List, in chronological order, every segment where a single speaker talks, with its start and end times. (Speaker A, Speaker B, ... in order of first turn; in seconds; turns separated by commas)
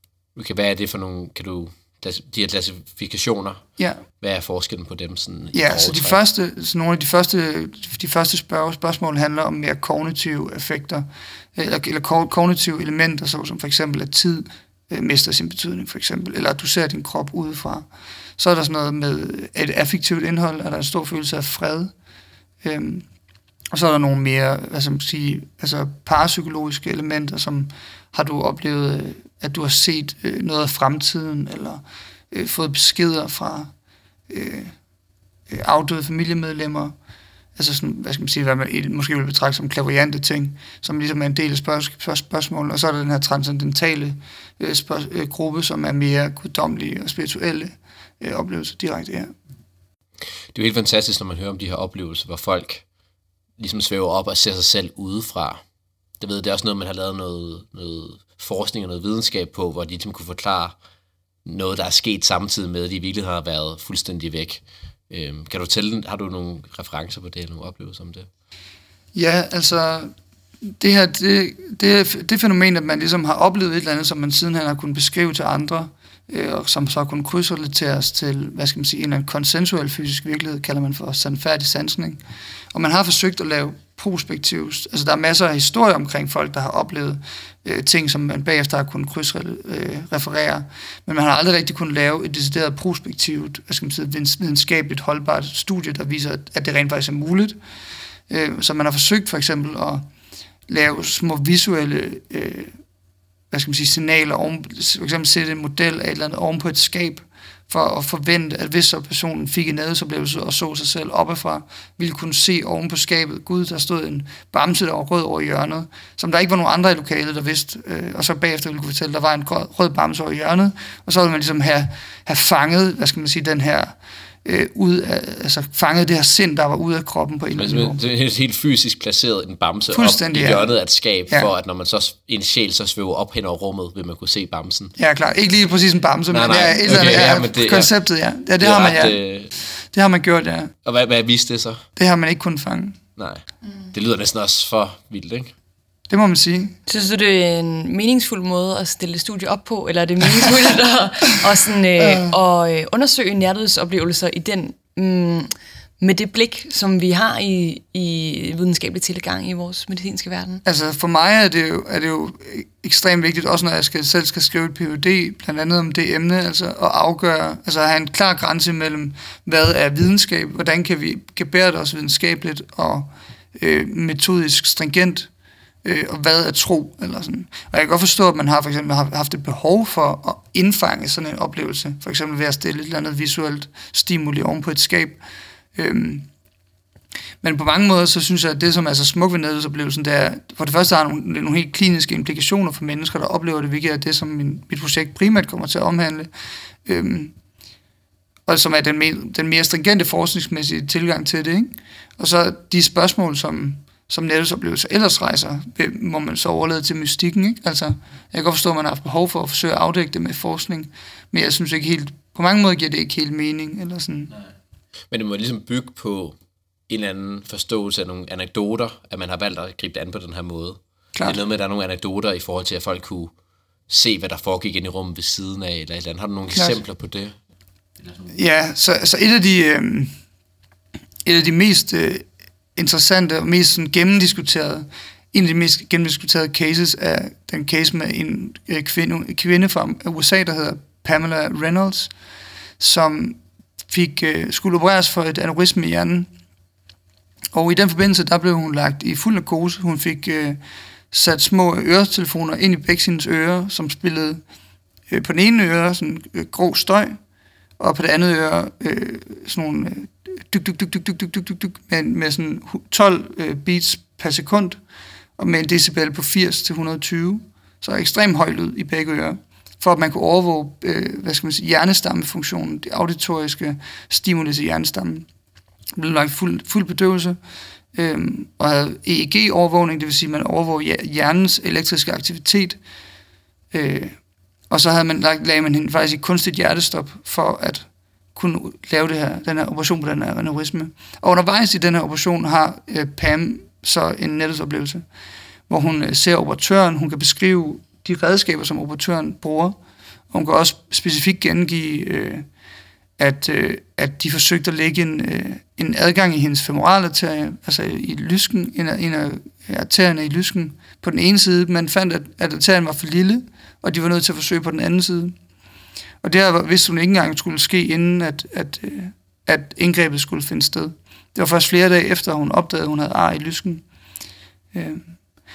Speaker A: 0.3-3.6, Speaker A: 4.2-6.2, Speaker B: 5.5-21.9, Speaker B: 22.6-23.1, Speaker B: 23.7-33.7, Speaker B: 34.3-34.8, Speaker B: 35.5-36.9, Speaker B: 37.5-49.3, Speaker A: 50.5-52.9, Speaker A: 53.6-55.6, Speaker A: 56.2-60.8, Speaker A: 61.4-68.3, Speaker B: 69.1-70.1, Speaker B: 70.8-82.2, Speaker B: 82.7-97.6, Speaker B: 98.3-100.1, Speaker B: 100.7-102.8, Speaker B: 103.5-128.0, Speaker A: 127.5-134.9, Speaker B: 129.9-130.7, Speaker B: 131.3-131.5, Speaker B: 135.0-139.2, Speaker A: 136.3-137.9, Speaker A: 138.6-139.5, Speaker B: 139.9-140.7, Speaker A: 140.8-141.8, Speaker B: 141.9-143.0, Speaker A: 143.2-145.5, Speaker B: 146.1-146.8, Speaker C: 146.9-160.6, Speaker B: 152.0-152.3, Speaker B: 160.6-175.3, Speaker B: 175.8-185.2, Speaker B: 185.8-186.3, Speaker B: 187.4-196.3, Speaker B: 196.8-197.3, Speaker B: 198.4-214.3, Speaker A: 215.1-223.3, Speaker A: 223.9-227.3, Speaker B: 226.5-226.8, Speaker B: 228.3-230.2, Speaker B: 231.2-242.1, Speaker B: 242.8-246.3, Speaker B: 247.5-250.6, Speaker B: 251.1-254.4, Speaker B: 255.1-257.2, Speaker B: 257.8-264.8, Speaker B: 265.4-275.3, Speaker B: 275.9-277.4, Speaker B: 277.9-282.8, Speaker B: 283.7-284.2, Speaker B: 284.7-295.1, Speaker B: 295.7-299.8, Speaker B: 300.3-302.5, Speaker B: 303.2-315.4, Speaker B: 316.2-323.8, Speaker B: 324.7-325.1